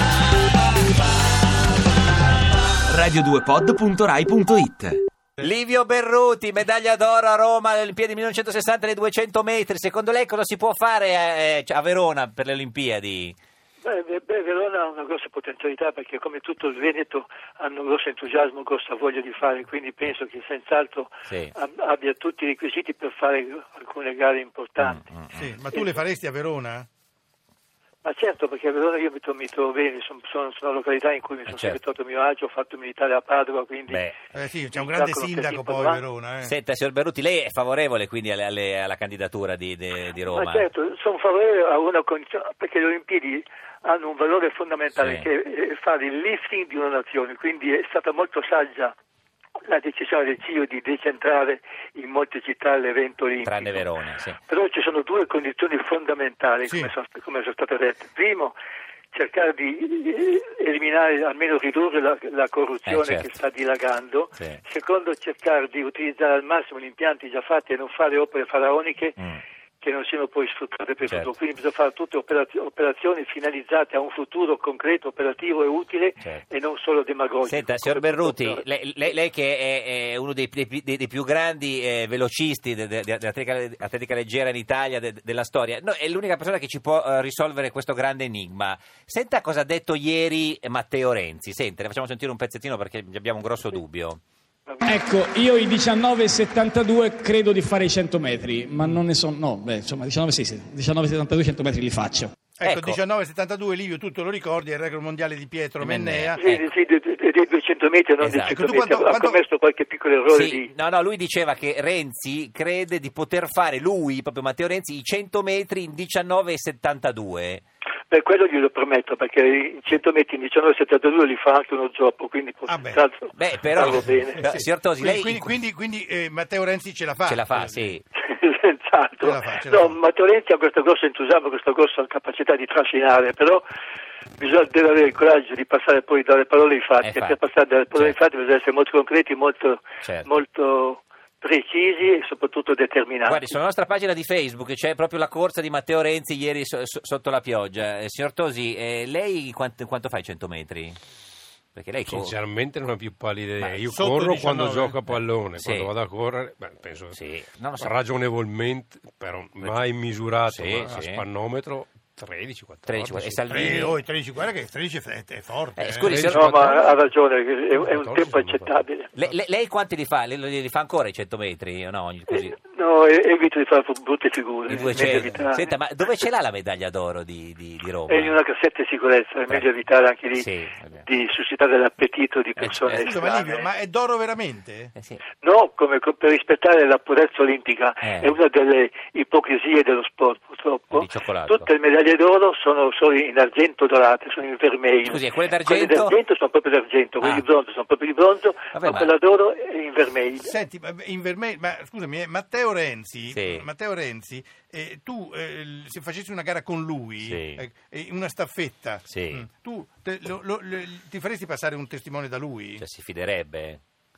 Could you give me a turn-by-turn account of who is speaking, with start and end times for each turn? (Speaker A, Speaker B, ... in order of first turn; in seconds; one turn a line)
Speaker A: 2.9-5.0
Speaker B: 5.4-13.3
Speaker C: 13.8-25.0
Speaker B: 21.3-21.5
Speaker B: 24.8-25.5
Speaker D: 25.3-26.9
Speaker C: 25.7-26.0
Speaker C: 28.0-34.1
Speaker B: 31.5-31.8
Speaker B: 33.9-34.1
Speaker D: 34.3-36.5
Speaker C: 34.7-36.0
Speaker B: 36.4-40.7
Speaker C: 40.2-48.9
Speaker B: 45.0-45.3
Speaker C: 49.7-53.9
Speaker B: 53.4-54.4
Speaker C: 54.5-58.6
Speaker D: 56.7-56.9
Speaker C: 59.1-69.2
Speaker B: 62.9-63.3
Speaker C: 69.8-78.6
Speaker B: 77.4-94.2
Speaker C: 94.7-95.4
Speaker E: 94.8-102.3
Speaker D: 102.6-106.4
Speaker B: 102.6-103.0
Speaker B: 105.8-106.7
Speaker C: 106.4-110.7
Speaker B: 108.2-108.8
Speaker D: 108.5-109.4
Speaker B: 110.3-117.6
Speaker C: 118.1-124.4
Speaker D: 122.7-123.0
Speaker B: 123.3-125.5
Speaker D: 123.9-127.8
Speaker B: 127.3-128.0
Speaker C: 128.1-133.6
Speaker D: 129.2-130.0
Speaker C: 134.4-143.5
Speaker B: 137.0-137.4
Speaker B: 140.0-140.3
Speaker B: 143.2-151.0
Speaker B: 151.7-152.3
Speaker F: 152.1-157.2
Speaker D: 153.9-155.0
Speaker B: 155.1-155.9
Speaker B: 157.1-157.9
Speaker F: 157.7-163.9
Speaker B: 160.4-161.2
Speaker B: 162.9-163.9
Speaker D: 163.5-166.1
Speaker B: 165.8-166.8
Speaker F: 166.0-166.9
Speaker C: 166.3-169.1
Speaker F: 167.7-169.3
Speaker B: 169.1-172.5
Speaker C: 172.3-175.7
Speaker B: 174.7-178.4
Speaker D: 174.8-175.2
Speaker C: 178.1-180.5
Speaker B: 180.3-181.0
Speaker C: 181.0-183.7
Speaker B: 182.6-183.1
Speaker D: 183.0-184.9
Speaker C: 185.4-200.5
Speaker B: 188.0-188.3
Speaker B: 190.9-191.7
Speaker B: 195.0-196.2
Speaker B: 197.2-197.4
Speaker B: 198.7-199.1
Speaker D: 200.4-212.8
Speaker B: 203.3-203.6
Speaker B: 207.2-207.6
Speaker B: 209.1-209.4
Speaker B: 212.8-213.8